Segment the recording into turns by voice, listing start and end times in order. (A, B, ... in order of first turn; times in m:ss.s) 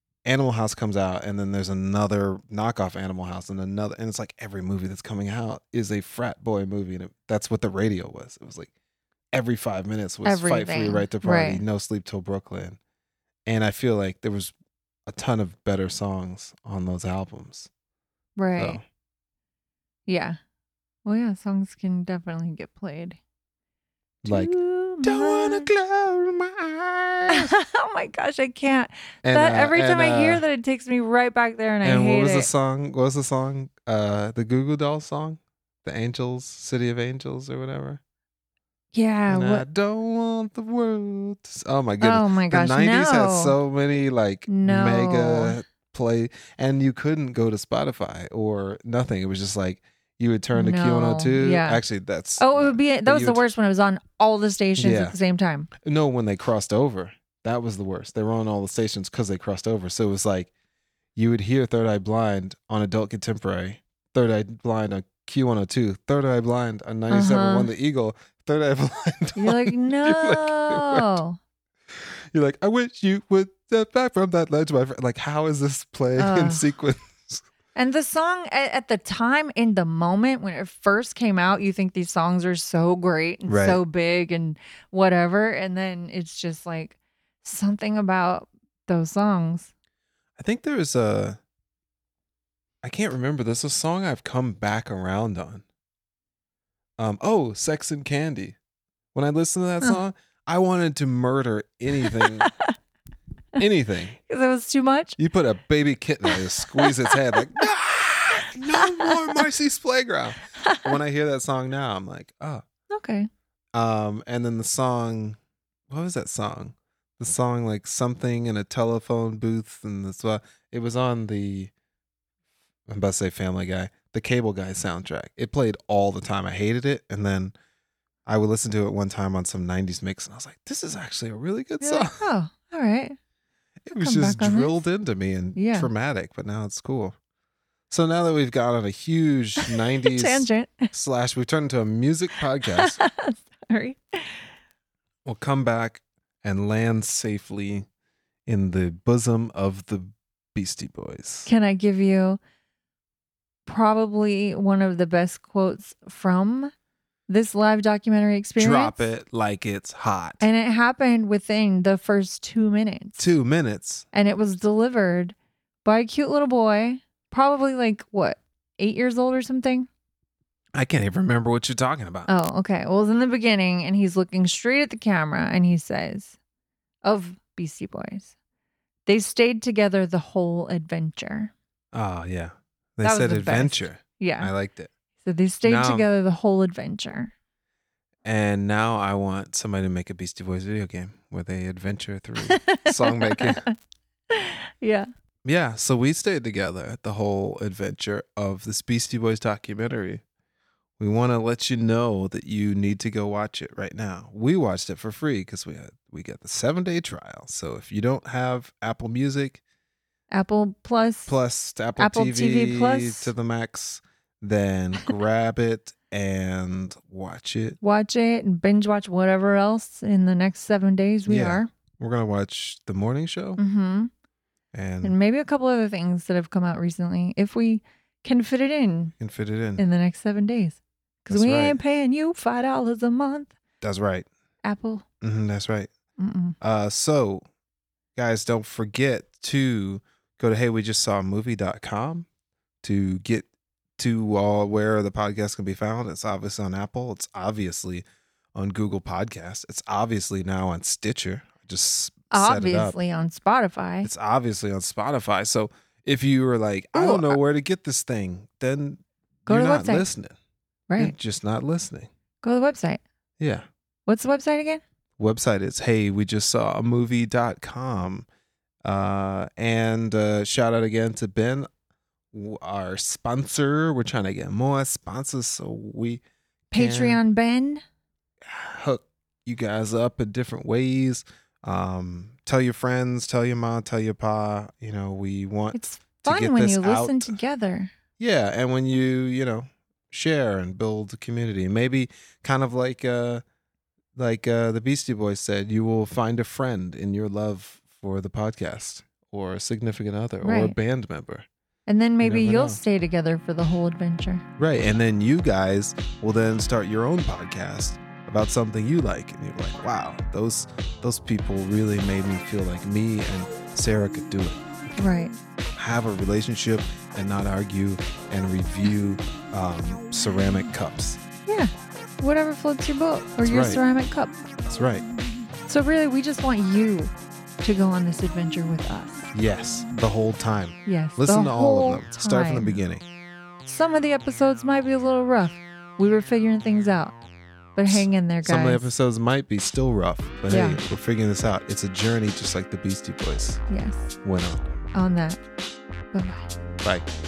0:00.2-0:08.7 A
0:09.3-0:12.8 A
0:10.2-0:11.6 B
0:13.4-0:14.5 A
0:15.1-0:17.7 A
0:18.4-0:18.8 B
0:18.6-0:18.8 A
0:20.1-0:20.4 B
0:21.0-0:23.2 B
0:24.2-0:27.6 A
0:24.2-0:25.7 B
0:27.3-0:32.5 B
0:29.2-0:30.4 A
0:31.8-0:38.0 A
0:38.9-0:39.6 B
0:39.3-0:53.4 A
0:42.0-0:43.5 B
0:44.5-0:45.6 B
0:50.5-0:51.8 B
0:52.4-0:55.7 B
0:54.8-0:55.2 A
0:55.8-1:00.5 A
1:01.1-1:11.2 A
1:07.1-1:07.7 B
1:09.4-1:11.4 B
1:11.9-1:17.4 A
1:16.2-1:16.7 B
1:17.7-1:29.7 B
1:23.5-1:23.8 A
1:30.4-1:31.4 A
1:32.8-1:35.6 A
1:37.0-1:38.6 A
1:39.1-1:42.5 A
1:42.0-1:42.5 B
1:43.6-1:44.2 A
1:44.3-1:45.2 B
1:45.2-1:52.6 A
1:46.3-1:47.3 B
1:48.8-1:49.4 B
1:50.6-1:51.0 B
1:52.9-1:53.3 B
1:53.7-1:55.4 A
1:55.9-2:01.7 A
2:02.9-2:07.5 A
2:08.2-2:12.2 A
2:11.8-2:13.2 B
2:13.8-2:17.1 A
2:14.0-2:14.7 B
2:15.6-2:15.9 B
2:17.9-2:23.0 A
2:20.0-2:20.9 B
2:22.8-2:24.5 B
2:25.2-2:27.9 A
2:28.4-2:31.5 A
2:31.5-2:32.4 B
2:33.6-2:36.7 B
2:37.3-2:39.0 B
2:38.6-2:40.5 A
2:40.4-2:43.3 B
2:43.2-2:44.0 A
2:44.1-2:49.9 B
2:50.7-2:52.3 A
2:52.3-2:56.4 B
2:57.0-2:58.3 B
2:59.1-3:01.5 B
3:01.9-3:04.9 A
3:03.0-3:04.5 B
3:05.2-3:07.3 B
3:05.6-3:06.1 A
3:08.2-3:13.6 A
3:12.5-3:13.7 B
3:14.3-3:15.1 B
3:15.4-3:20.2 A
3:21.0-3:29.6 A
3:30.3-3:31.3 B
3:31.3-3:37.8 A
3:32.0-3:33.3 B
3:37.8-3:41.7 B
3:41.2-3:43.6 A
3:43.6-3:44.1 B
3:44.7-3:45.1 A
3:45.0-3:49.1 B
3:49.2-3:49.8 A
3:49.8-3:53.5 B
3:51.3-3:51.8 A
3:53.8-3:54.3 A
3:54.6-3:55.0 B
3:55.2-3:55.9 A
3:56.2-3:56.6 B
3:56.6-3:57.4 A
3:58.2-4:02.2 A
4:02.8-4:03.5 A
4:04.0-4:13.0 A
4:12.3-4:14.1 B
4:14.0-4:20.4 A
4:16.9-4:17.4 B
4:19.5-4:20.0 B
4:20.9-4:21.1 B
4:21.0-4:22.1 A
4:22.4-4:23.0 B
4:23.4-4:23.6 A
4:24.0-4:24.8 B
4:25.2-4:28.2 A
4:28.8-4:31.7 A
4:32.3-4:37.2 A
4:36.7-4:37.8 B
4:38.4-4:47.4 A
4:45.7-4:47.9 B
4:48.2-4:53.4 A
4:54.1-5:01.5 A
5:00.4-5:00.8 B
5:01.9-5:04.4 B
5:02.2-5:02.8 A
5:04.6-5:15.1 A
5:15.0-5:15.3 B
5:15.8-5:21.2 A
5:21.4-5:24.4 B
5:23.4-5:23.8 A
5:24.7-5:25.0 A
5:25.7-5:29.2 B
5:29.3-5:33.0 A
5:30.8-5:32.8 B
5:33.6-5:37.2 B
5:37.8-5:38.9 B
5:37.9-5:43.6 A
5:40.5-5:40.8 B
5:43.7-5:44.1 B
5:44.2-5:44.7 A
5:44.9-5:45.4 B
5:46.1-5:46.4 B
5:46.8-5:47.1 A